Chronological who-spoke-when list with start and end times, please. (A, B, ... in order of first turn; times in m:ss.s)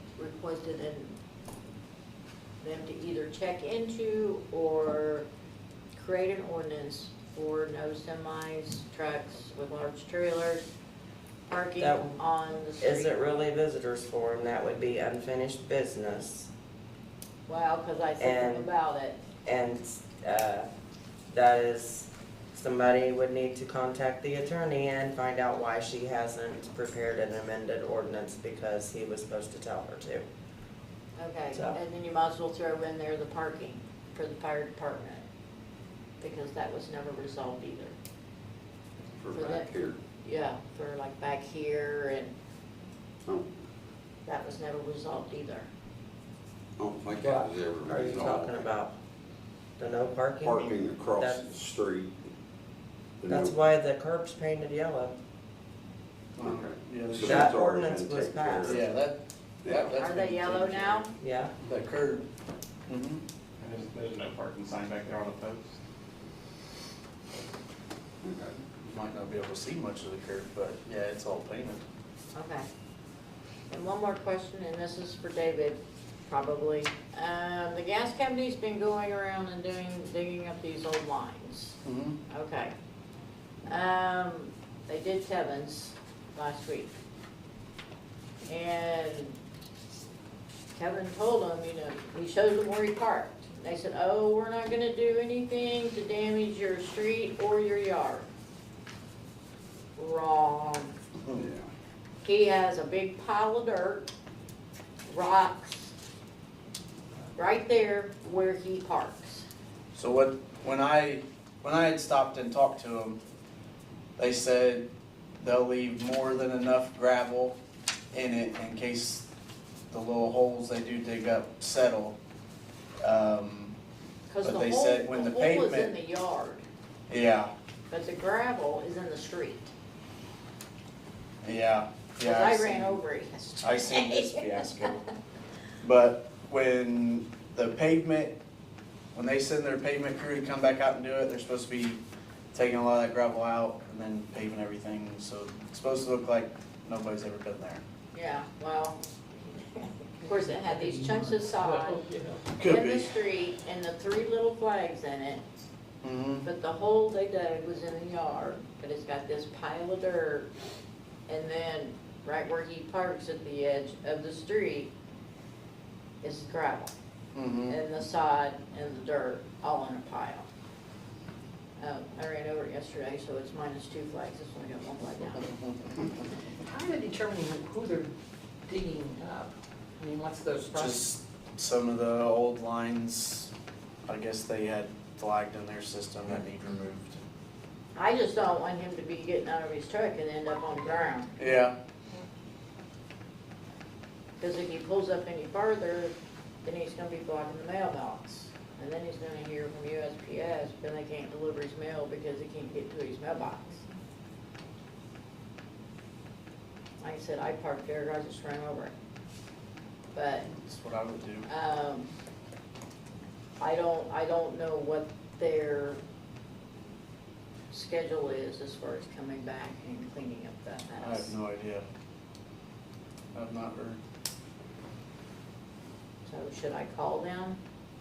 0:00.2-0:01.2 A
0:02.6-0:05.3 A
0:05.9-0:10.7 A
0:11.5-0:13.1 A
0:11.8-0:12.2 B
0:12.8-0:16.5 B
0:17.5-0:19.2 A
0:18.2-0:18.7 B
0:19.4-0:20.7 B
0:21.3-0:30.2 B
0:31.2-0:35.2 A
0:36.2-0:38.0 A
0:39.2-0:40.0 C
0:39.3-0:42.3 A
0:43.2-0:43.5 C
0:44.2-0:45.7 A
0:46.8-0:48.7 C
0:47.2-0:48.9 B
0:49.8-0:51.4 B
0:50.4-0:52.2 C
0:53.2-0:53.6 C
0:53.3-0:55.1 B
0:56.4-0:57.5 D
0:56.4-0:58.9 C
0:57.2-0:58.8 B
0:58.6-1:01.1 D
0:59.6-0:59.9 C
1:00.0-1:01.1 A
1:01.2-1:01.5 B
1:01.6-1:02.2 D
1:02.9-1:03.2 D
1:03.6-1:05.7 E
1:08.2-1:08.6 C
1:08.8-1:11.8 D
1:12.3-1:12.7 A
1:13.7-1:22.7 A
1:21.8-1:22.2 D
1:23.7-1:26.9 A
1:28.5-1:29.4 A
1:30.7-1:38.3 A
1:40.0-1:40.9 A
1:41.4-1:41.7 C
1:42.2-1:44.1 A
1:45.1-1:45.9 A
1:47.3-1:49.4 A
1:49.9-1:53.2 D
1:54.2-1:54.9 D
1:55.4-1:57.6 D
1:58.1-1:59.3 D
1:59.9-2:02.2 D
2:03.0-2:03.8 D
2:04.3-2:06.6 A
2:04.4-2:06.0 D
2:07.1-2:07.5 D
2:07.9-2:09.7 A
2:11.4-2:13.0 D
2:12.2-2:14.8 A
2:13.6-2:15.0 D
2:15.8-2:18.3 D
2:19.1-2:22.0 D
2:22.5-2:27.8 D
2:28.1-2:32.0 A
2:30.2-2:32.4 F
2:32.6-2:33.1 D
2:32.6-2:35.5 A
2:36.0-2:36.5 D
2:36.4-2:40.5 A
2:41.3-2:44.9 A
2:46.2-2:46.9 A
2:47.3-2:47.8 D
2:47.7-2:50.5 A
2:51.8-2:55.5 A
2:56.7-2:58.1 F
2:58.6-3:01.1 F
3:00.7-3:03.5 D
3:04.1-3:07.2 D
3:08.0-3:11.3 A
3:11.4-3:11.7 D
3:14.4-3:16.1 A
3:16.6-3:23.9 A
3:27.0-3:28.9 A
3:30.1-3:30.5 A
3:30.5-3:31.5 D
3:31.5-3:32.1 A
3:33.6-3:36.0 A
3:37.7-3:41.3 A
3:41.0-3:41.8 D
3:43.3-3:44.0 D
3:46.2-3:47.6 A